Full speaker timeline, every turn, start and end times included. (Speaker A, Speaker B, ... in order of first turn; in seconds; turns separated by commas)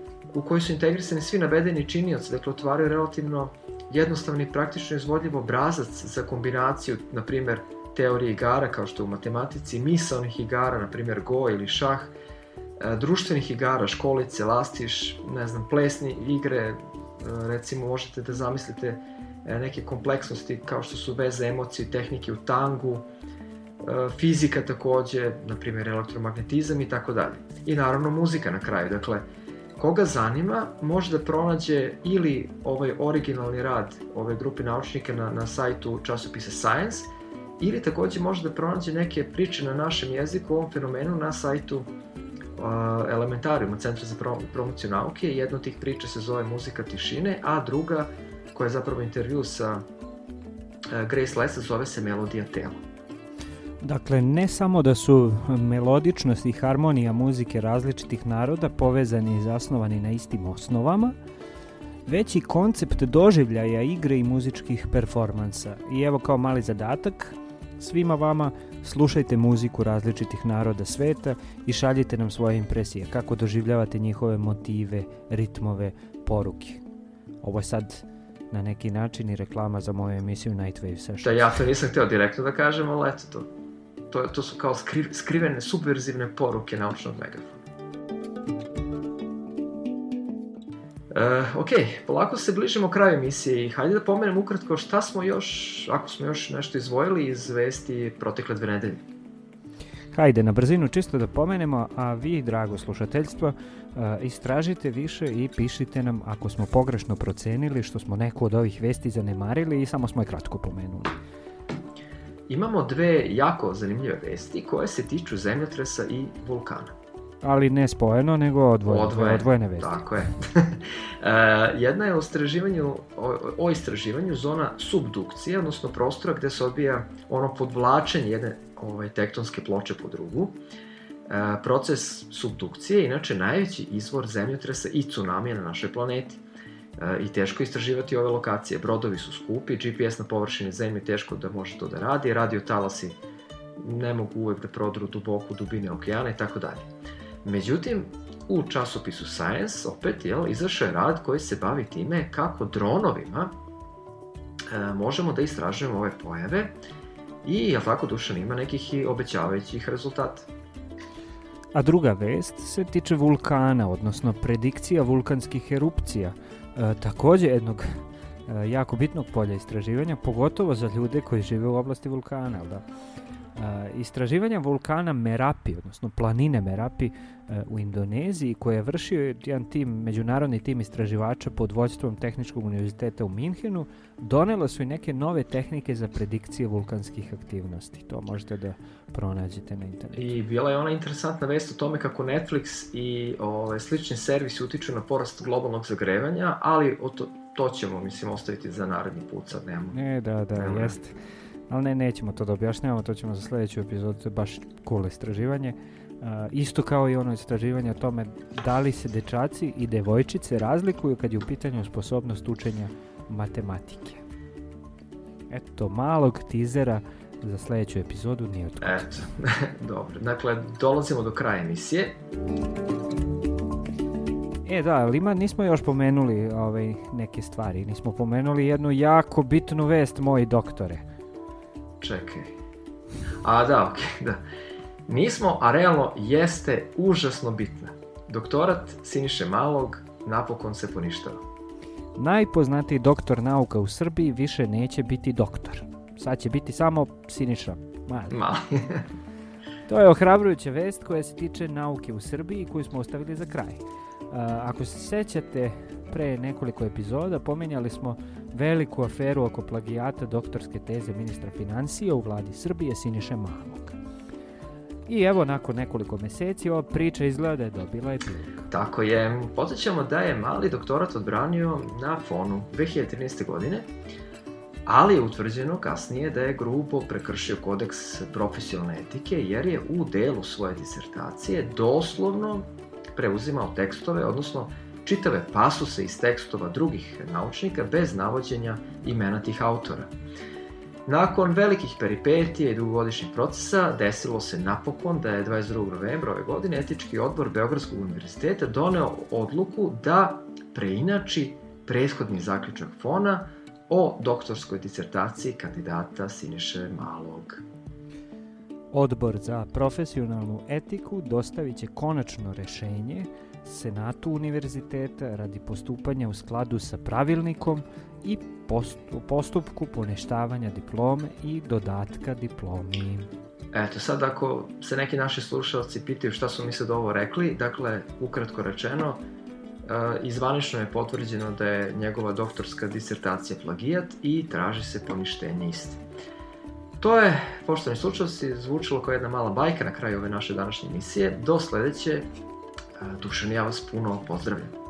Speaker A: 0.3-12.1, Speaker A: 12.8-23.1, Speaker A: 23.8-29.3, Speaker A: 29.8-41.9, Speaker A: 42.5-49.9, Speaker A: 50.9-52.8, Speaker B: 53.8-61.2, Speaker B: 62.1-76.8, Speaker B: 77.4-81.4, Speaker A: 81.2-83.5, Speaker A: 84.1-87.6, Speaker A: 91.1-99.0, Speaker B: 100.1-111.2, Speaker A: 112.5-117.0, Speaker B: 117.4-120.0, Speaker A: 118.9-130.6, Speaker A: 131.3-136.4, Speaker A: 137.0-143.2, Speaker A: 143.8-146.9, Speaker A: 147.4-153.5, Speaker A: 154.7-156.8, Speaker A: 157.4-160.5, Speaker B: 161.7-172.8, Speaker B: 173.6-190.2, Speaker A: 190.1-200.0, Speaker B: 199.9-201.2, Speaker A: 200.6-201.0, Speaker B: 201.7-214.2, Speaker B: 215.5-219.1, Speaker A: 218.8-222.2, Speaker B: 224.7-231.0, Speaker A: 232.0-232.5, Speaker A: 233.4-234.4, Speaker A: 235.1-241.4, Speaker B: 242.2-248.4, Speaker A: 248.3-249.1, Speaker B: 249.9-264.0, Speaker B: 265.1-268.7, Speaker A: 268.7-273.9, Speaker A: 274.9-290.1, Speaker A: 291.1-307.6, Speaker B: 308.9-323.3, Speaker A: 323.7-329.2, Speaker A: 329.8-336.0, Speaker A: 337.0-342.3, Speaker A: 343.0-344.8